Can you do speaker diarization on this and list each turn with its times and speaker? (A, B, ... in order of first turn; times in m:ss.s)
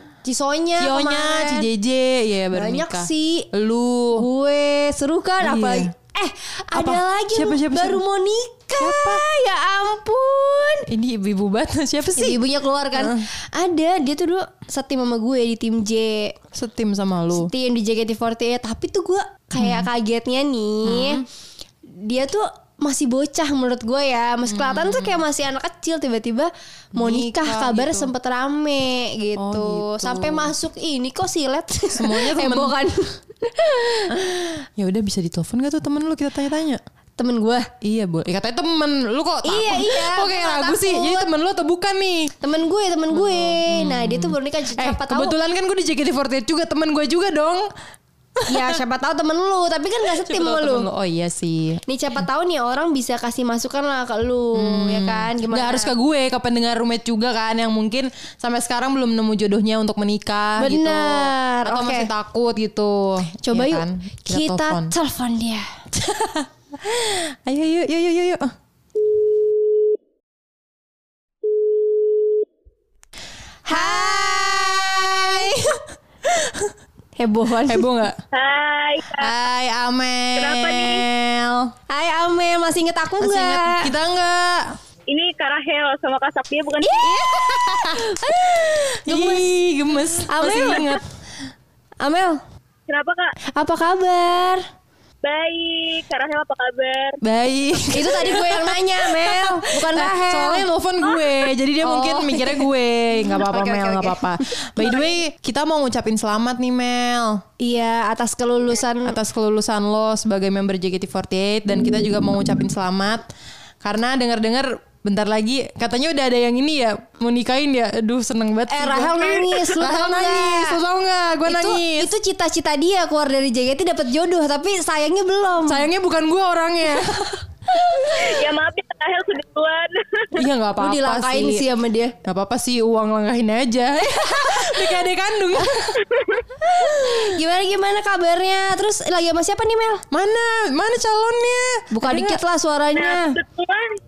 0:00.2-0:01.7 A
0:00.8-0:04.2 B
0:02.5-0:03.5 A
0:04.2-0:10.9 A
0:05.4-0:05.9 B
0:06.7-0:08.0 B
0:08.8-0:09.2 B
0:10.9-0:12.4 B
0:12.2-0:16.4 A
0:12.9-0:13.3 B
0:16.5-0:17.5 B
0:17.3-0:21.2 A
0:19.6-0:19.9 B
0:20.8-0:21.2 B
0:21.9-0:34.2 A
0:24.5-0:25.2 B
0:26.9-0:28.1 B
0:29.4-0:30.5 B
0:31.9-0:32.7 B
0:34.1-0:36.8 B
0:37.2-0:37.7 A
0:37.8-0:42.3 B
0:39.4-0:41.3 A
0:42.4-0:45.4 A
0:43.1-0:47.7 B
0:48.4-0:48.8 B
0:48.5-0:50.9 A
0:50.2-0:51.8 B
0:51.9-0:55.9 A
0:54.5-1:04.9 B
1:00.6-1:02.1 A
1:03.5-1:05.7 A
1:05.9-1:08.5 B
1:13.7-1:15.4 A
1:13.7-1:16.7 B
1:17.2-1:17.8 A
1:17.6-1:18.2 B
1:18.3-1:19.3 C
1:19.2-1:21.7 B
1:20.4-1:21.0 C
1:21.9-1:23.9 A
1:23.2-1:24.7 B
1:25.1-1:27.1 C
1:26.8-1:29.4 A
1:27.3-1:28.0 B
1:29.1-1:31.0 B
1:30.3-1:31.0 A
1:32.0-1:32.4 A
1:32.9-1:33.4 C
1:33.5-1:34.6 A
1:35.2-1:37.2 C
1:37.2-1:47.4 B
1:37.9-1:40.7 A
1:41.8-1:42.7 A
1:43.2-1:45.1 A
1:47.6-1:49.2 A
1:49.0-1:53.3 B
1:53.8-2:02.1 B
1:58.7-2:00.8 A
2:01.4-2:05.9 A
2:05.7-2:07.4 B
2:07.7-2:08.2 A
2:08.0-2:10.5 C
2:10.4-2:11.6 B
2:10.8-2:12.1 A
2:12.2-2:16.0 B
2:14.0-2:15.0 A
2:16.1-2:16.4 C
2:16.6-2:20.0 A
2:20.1-2:22.4 B
2:21.9-2:23.4 A
2:23.0-2:24.0 C